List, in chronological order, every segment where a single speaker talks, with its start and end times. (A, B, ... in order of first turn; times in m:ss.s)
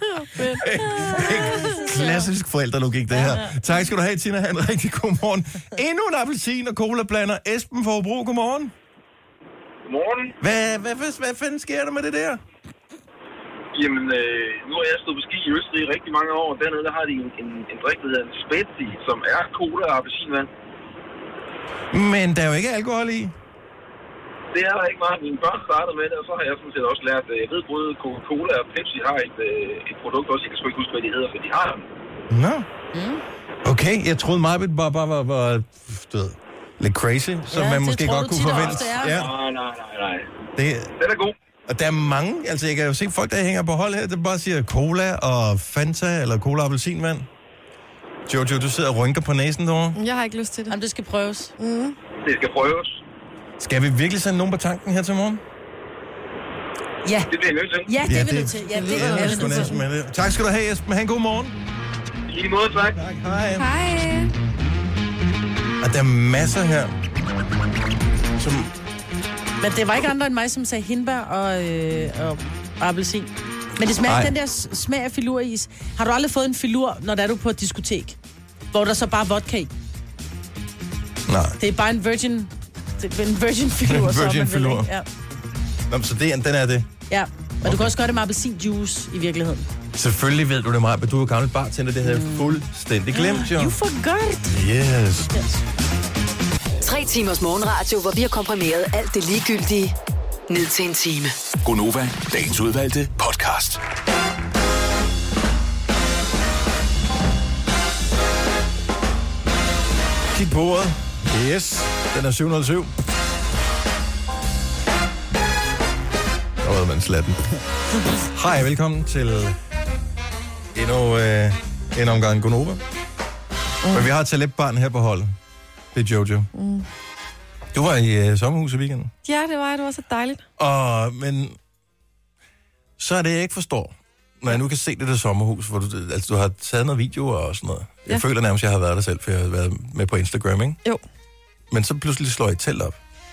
0:00.2-0:00.6 A
0:00.6-0:08.7 B
0:09.9-0:10.4 C
0:10.4-0:12.4 B
0:13.7-0:20.5 C
0:21.9-0:23.4 B
0:24.5-0:31.9 C
0:32.3-0:32.7 B
0:32.9-0:33.2 D
0:33.6-0:39.3 B
0:37.5-0:39.2 D
0:38.6-0:40.3 C
0:40.6-0:40.9 B
0:41.0-0:41.3 C
0:41.7-0:47.3 B
0:48.3-0:50.0 B
0:50.0-0:50.8 A
0:50.7-0:51.5 D
0:51.6-0:52.0 A
0:52.2-0:53.0 C
0:53.6-0:55.4 B
0:57.0-0:57.3 D
0:57.3-0:58.0 C
0:57.8-0:59.8 D
0:58.0-1:01.6 B
0:58.7-0:59.8 A
1:02.3-1:03.0 C
1:02.9-1:03.7 B
1:03.6-1:04.3 A
1:05.8-1:07.0 B
1:08.4-1:08.7 B
1:09.6-1:18.2 D
1:14.0-1:14.3 B
1:18.7-1:19.7 D
1:21.3-1:21.6 B
1:21.6-1:25.1 D
1:23.8-1:24.9 B
1:25.9-1:26.9 B
1:27.1-1:29.7 D
1:27.6-1:27.9 B
1:30.0-1:33.8 B
1:32.0-1:34.6 D
1:34.5-1:35.3 B
1:35.3-1:35.6 D
1:36.8-1:40.0 E
1:40.5-1:41.4 E
1:41.6-1:43.8 F
1:50.3-1:52.9 B
1:56.6-1:57.6 B
1:58.1-1:59.6 B
2:00.7-2:02.8 B
2:03.8-2:04.1 A
2:03.9-2:05.4 B
2:05.9-2:06.5 B
2:06.5-2:06.9 A
2:07.7-2:09.1 B
2:09.2-2:10.4 A
2:10.6-2:11.6 B
2:13.0-2:20.8 B
2:21.7-2:23.0 B